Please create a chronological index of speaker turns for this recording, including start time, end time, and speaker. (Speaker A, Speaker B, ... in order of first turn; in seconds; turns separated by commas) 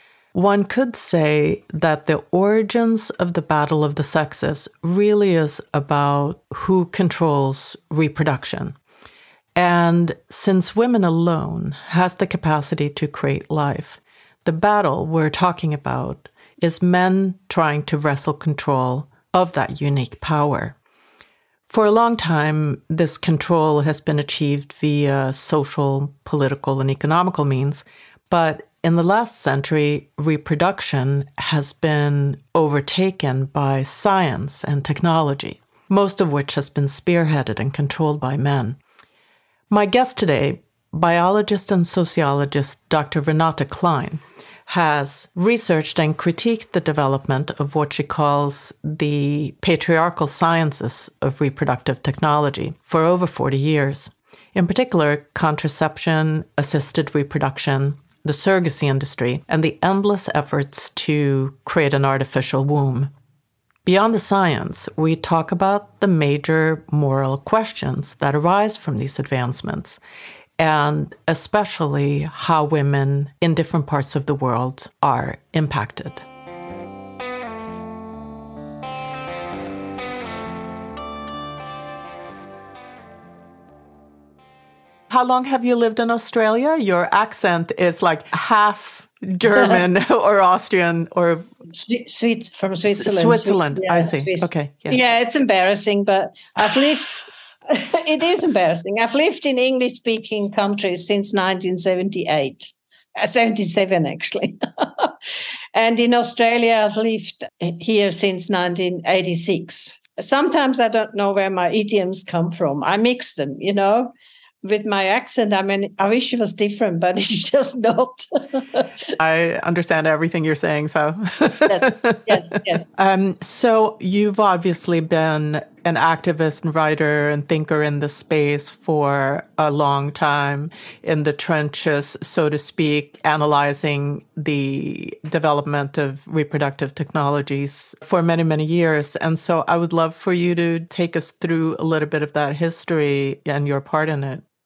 Speaker A: 0.3-8.8, Speaker A: 9.6-20.8, Speaker A: 21.7-38.8, Speaker A: 39.7-63.1, Speaker A: 63.9-70.0, Speaker A: 70.6-76.2, Speaker A: 85.1-91.5, Speaker B: 91.7-97.1, Speaker A: 92.9-95.0, Speaker B: 97.7-105.1, Speaker B: 105.7-114.1, Speaker B: 114.6-118.9, Speaker A: 119.2-144.4, Speaker B: 121.7-122.8